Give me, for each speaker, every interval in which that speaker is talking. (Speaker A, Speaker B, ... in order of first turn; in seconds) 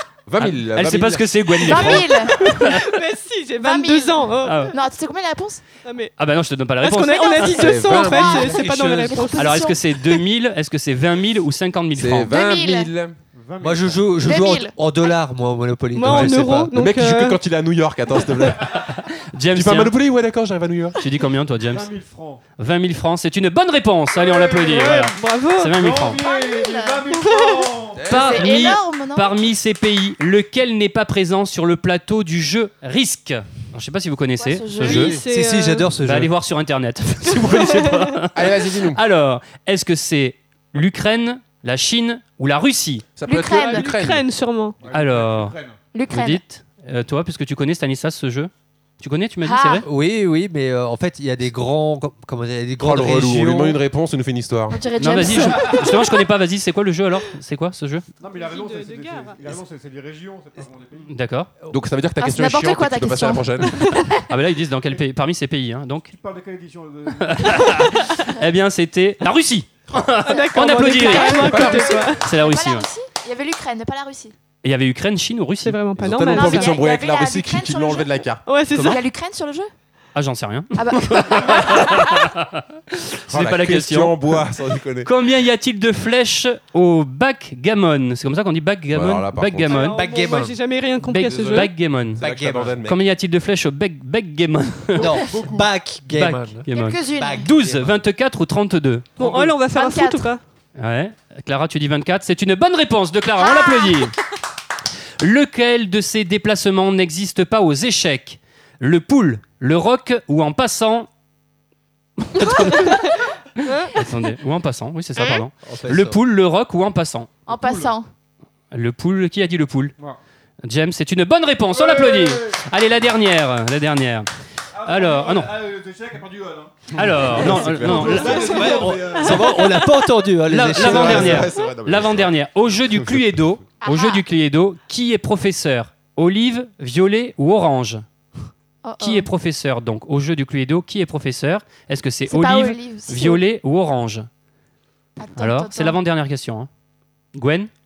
Speaker A: 0.3-2.1, 7.5-9.3, 11.9-13.2, 16.7-18.9, 19.5-21.0, 27.9-28.6, 38.3-39.0, 43.2-44.2, 52.8-54.8, 61.7-64.0, 71.1-72.2, 76.0-78.4, 83.3-85.1, 88.9-89.9, 91.2-93.0, 127.4-128.7, 130.8-132.3, 133.0-133.3
Speaker B: 0.4-2.9, 4.4-4.8, 6.2-8.0, 9.4-12.3, 16.1-16.4, 18.7-19.9, 21.0-21.9, 22.6-26.2, 28.1-35.2, 36.0-43.1, 44.9-45.5, 46.1-49.9, 55.0-58.0, 61.1-61.5, 64.3-66.1, 67.1-72.9, 74.6-75.8, 78.7-79.0, 80.2-84.4, 85.0-90.0, 91.0-92.2, 92.8-95.1, 96.1-99.2, 100.8-104.1, 105.2-111.1, 112.2-117.3, 118.7-120.0, 120.7-124.3, 124.8-125.5, 126.9-128.9, 130.5-138.0, 139.0-144.3, 145.4-146.7, 147.3-147.7
Speaker C: 1.6-2.5, 3.6-5.6, 8.0-8.6, 9.1-10.2, 12.3-12.9, 14.2-14.7, 26.2-27.3, 28.1-29.5, 34.4-35.2, 43.2-43.9, 45.9-46.4, 49.4-49.9, 54.7-56.1, 62.2-64.3, 71.0-74.3, 76.2-78.1, 78.8-79.7, 80.8-82.0, 96.7-97.5, 99.6-100.3, 103.4-104.1, 115.2-115.4, 117.5-118.1, 133.8-134.2, 138.8-139.3, 142.3-143.4, 145.2-146.0
Speaker D: 2.4-4.7, 5.8-6.1, 6.8-9.5, 15.9-17.4, 24.9-25.8, 27.1-27.7, 34.8-35.9, 37.5-37.9, 43.5-44.8, 58.3-59.5, 70.2-72.2, 75.6-76.8, 78.5-79.0, 89.7-91.7, 99.2-100.4, 113.7-113.9, 129.2-129.8
Speaker E: 13.3-14.1, 21.6-22.4, 24.1-25.2, 25.7-28.1, 44.8-45.8, 55.5-55.9, 58.2-61.1, 66.1-67.9, 95.0-95.7, 99.2-99.5, 117.5-117.9, 121.7-122.6, 124.8-129.7
Speaker F: 13.6-16.8, 35.1-36.3, 49.8-53.8, 89.9-90.6, 92.2-92.8, 95.0-98.0, 115.7-116.1, 128.2-131.6